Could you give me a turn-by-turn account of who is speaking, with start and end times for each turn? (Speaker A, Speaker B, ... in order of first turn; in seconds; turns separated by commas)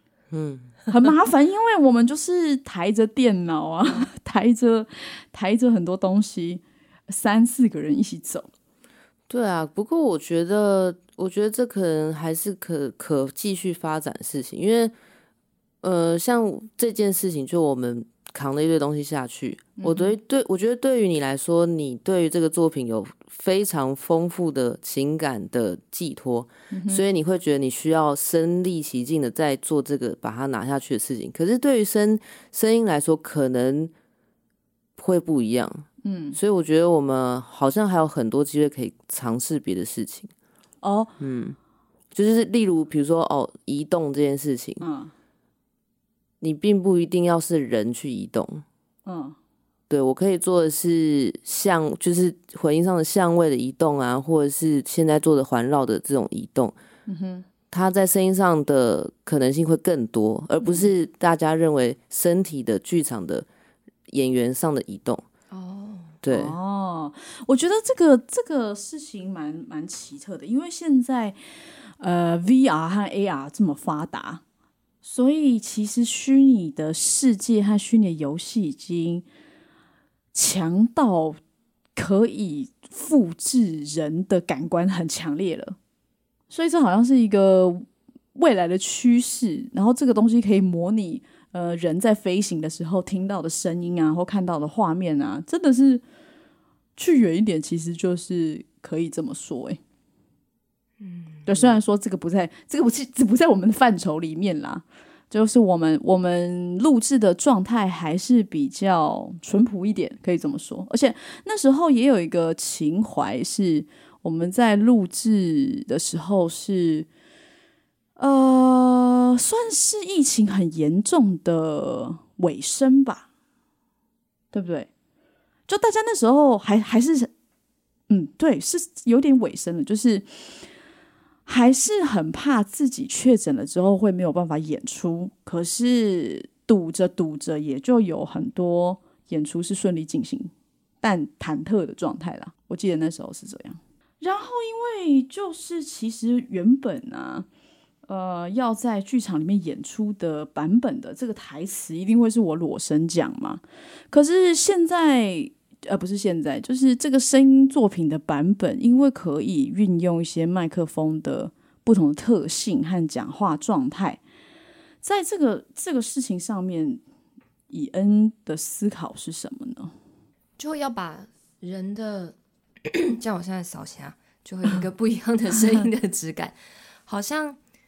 Speaker A: 0.3-0.7, Speaker B: 0.9-8.5, Speaker A: 9.3-14.9, Speaker A: 15.8-33.9, Speaker B: 19.8-20.1, Speaker B: 26.7-27.0, Speaker A: 35.0-40.3, Speaker B: 36.0-36.4, Speaker B: 40.8-41.1, Speaker A: 41.2-41.6, Speaker A: 42.1-44.8, Speaker B: 44.8-45.1, Speaker A: 46.4-48.6, Speaker B: 49.1-49.4, Speaker A: 49.9-56.8, Speaker B: 57.1-57.5, Speaker A: 57.7-63.5, Speaker B: 60.6-60.9, Speaker A: 64.1-65.2, Speaker C: 65.5-66.2, Speaker A: 66.2-66.5, Speaker B: 66.3-71.4, Speaker B: 72.0-74.4, Speaker B: 75.0-79.2, Speaker B: 80.3-81.4, Speaker B: 82.0-85.8, Speaker B: 86.5-96.0, Speaker B: 97.0-99.8, Speaker C: 101.0-101.7, Speaker B: 101.5-117.1, Speaker B: 118.2-123.3, Speaker B: 124.5-124.9, Speaker B: 125.7-127.3, Speaker B: 128.1-130.6, Speaker B: 131.5-140.5, Speaker B: 141.0-147.5, Speaker B: 148.1-164.2, Speaker B: 165.0-167.0, Speaker B: 167.7-169.9, Speaker C: 170.6-177.6